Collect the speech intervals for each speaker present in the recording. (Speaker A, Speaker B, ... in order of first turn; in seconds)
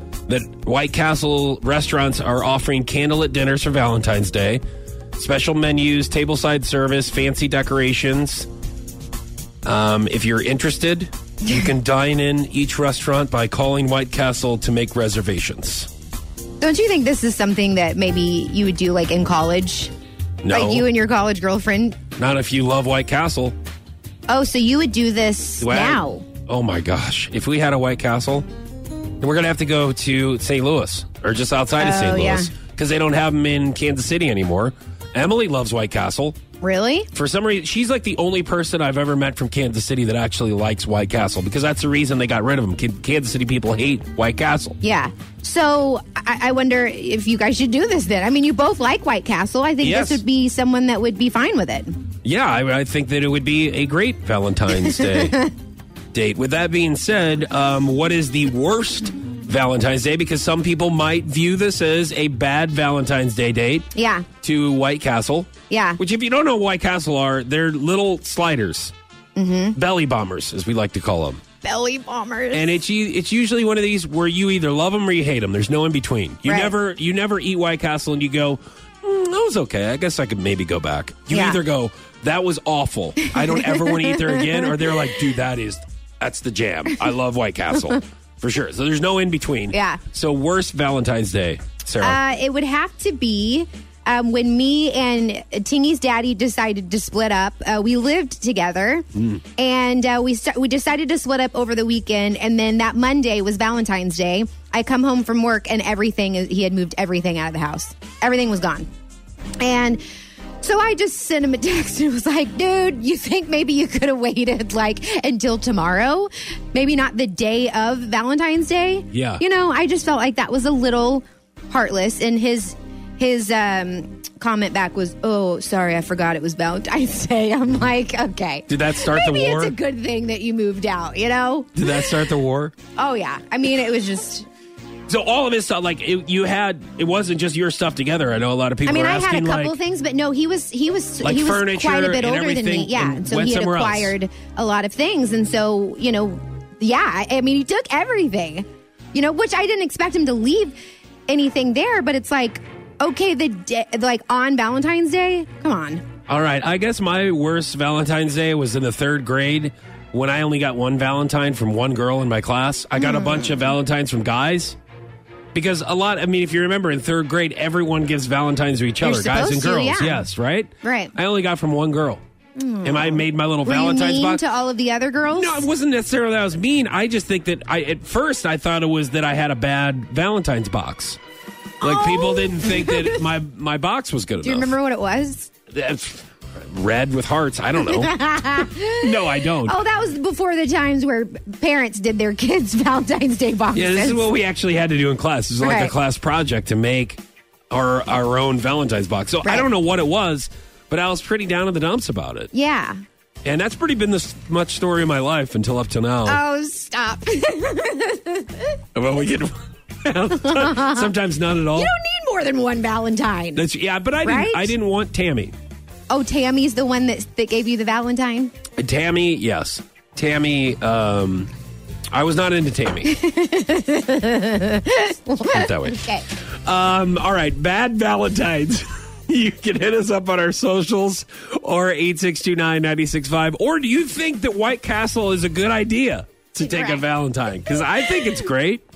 Speaker A: 0.3-4.6, 5.2-8.5, 9.6-15.9, 20.4-20.9, 22.2-23.6, 25.6-28.4, 29.2-36.4, 37.1-44.8, 49.8-50.2, 52.2-55.5, 56.1-63.9, 64.4-68.9, 69.7-71.4, 72.5-92.2, 119.1-119.4, 128.7-129.7, 131.8-132.7, 135.1-139.7, 141.2-144.1, 156.3-164.8, 165.5-172.2, 172.8-174.4, 175.3-181.2, 181.8-184.7, 185.7-188.1, 188.9-189.8, 193.7-202.5, 203.4-206.4, 208.9-211.9, 213.5-215.5, 218.8-221.5, 222.1-223.1, 225.5-238.8
Speaker B: 16.6-19.9, 20.5-22.0, 24.3-26.2, 31.8-32.5, 36.6-37.1, 44.8-51.9, 54.7-55.5, 63.9-64.3, 65.7-66.0, 69.3-69.8, 71.6-72.8, 76.5-76.7, 81.3-81.6, 83.3-84.9, 89.7-90.0, 92.0-108.9, 109.6-110.0, 110.6-132.2, 132.9-134.5, 138.8-150.8, 151.3-156.1, 162.9-163.7, 169.0-170.2, 170.8-171.1, 172.6-175.7, 181.8-183.2, 184.4-185.5, 187.8-194.3, 195.6-195.9, 202.5-203.0, 206.2-208.8, 210.3-211.1, 211.7-213.6, 214.2-214.7, 216.1-218.5, 223.0-226.2, 236.6-237.0, 237.7-238.4